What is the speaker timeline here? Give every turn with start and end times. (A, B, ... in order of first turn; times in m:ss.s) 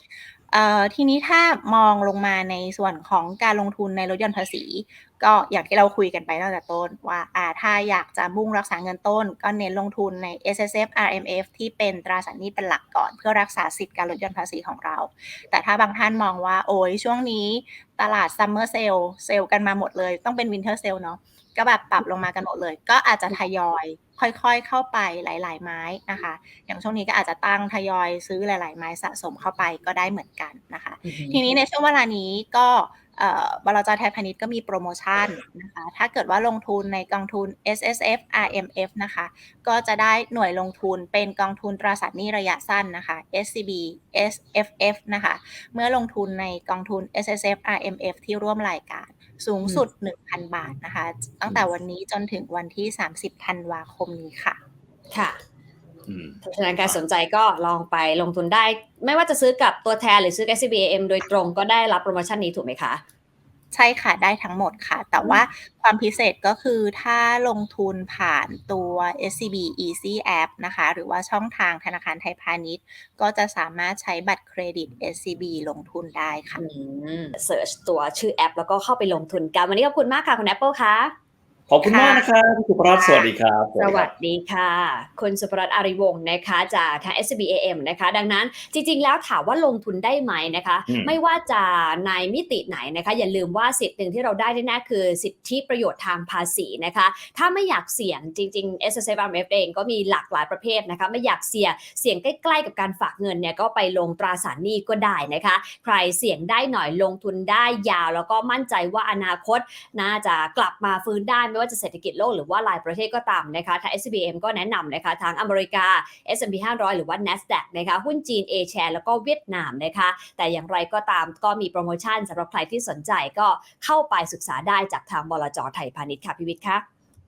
0:00.5-0:54.6 A
0:31.0-0:31.4 B
0:55.1-0:55.4 B
0:56.1-0:57.0 C
0:56.4-1:03.0 B
1:03.7-1:16.6 A
1:16.6-1:21.1 B
1:21.7-1:24.1 C
1:21.8-1:22.2 A
1:22.9-1:23.3 A
1:23.8-2:06.8 B
1:30.9-1:31.2 C